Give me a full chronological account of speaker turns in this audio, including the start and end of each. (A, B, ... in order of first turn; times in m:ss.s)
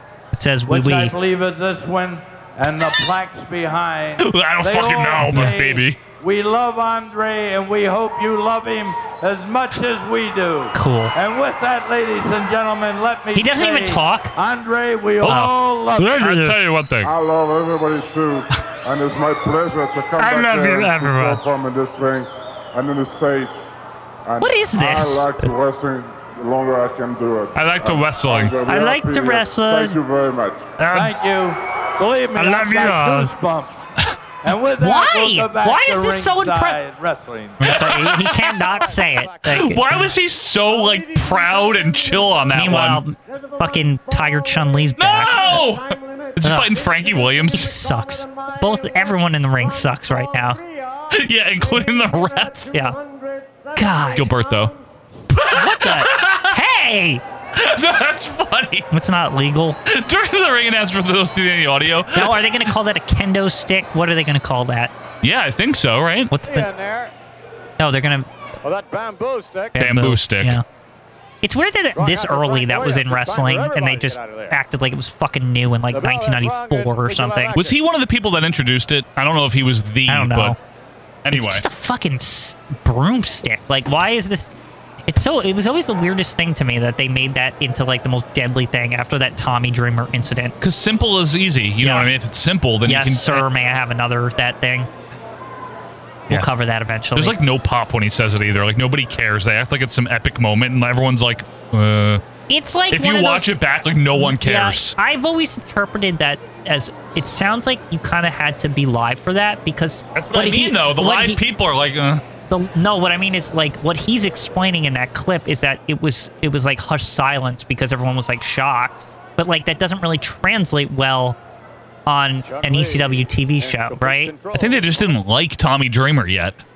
0:00.3-0:01.1 A
0:00.7-0:16.2 B
0:04.2-0:06.0 C
0:10.7-0:11.1 A
0:13.4-0:14.3 A
0:15.2-0:17.1 C
0:15.3-0:16.6 A
0:17.0-0:23.7 D
0:20.2-0:21.4 A
0:24.2-0:30.7 D
0:24.4-0:25.5 A
0:27.6-0:28.6 C
0:28.7-0:30.0 A
0:30.8-0:31.1 A
0:30.9-0:33.9 B
0:32.4-0:33.3 A
0:34.4-0:37.8 B
0:34.8-0:36.8 A
0:37.6-0:40.1 A
0:37.6-0:38.6 C
0:38.8-0:39.8 E
0:39.4-0:43.0 C
0:42.5-0:45.7 A
0:45.0-0:47.7 C
0:46.4-0:46.7 A
0:47.5-0:50.6 A
0:51.1-0:52.7 C
0:52.7-0:53.0 A
0:53.8-0:54.3 A
0:54.1-0:54.8 C
0:55.3-0:56.6 C
0:55.5-0:57.2 A
0:57.6-0:58.9 C
0:58.9-0:59.8 A
0:59.9-1:02.5 C
1:02.1-1:04.9 A
1:05.2-1:06.3 C
1:06.3-1:06.7 A
1:06.4-1:07.1 E
1:07.8-1:08.3 A
1:08.6-1:09.8 E
1:09.8-1:10.6 A
1:09.8-1:10.6 C
1:11.4-1:17.6 A
1:12.0-1:14.6 E
1:15.9-1:17.8 E
1:17.6-1:20.6 C
1:20.1-1:20.6 A
1:21.2-1:21.6 C
1:21.3-1:30.6 A
1:30.6-1:33.4 C
1:31.8-1:32.1 A
1:32.8-1:34.9 A
1:36.3-1:36.6 C
1:36.3-1:37.4 A
1:37.1-1:42.2 C
1:42.5-1:43.6 A
1:42.9-1:45.0 C
1:44.1-1:51.4 A
1:50.1-1:52.2 C
1:52.5-2:01.4 A
2:02.0-2:04.3 A
2:02.4-2:05.2 E
2:04.5-2:06.6 C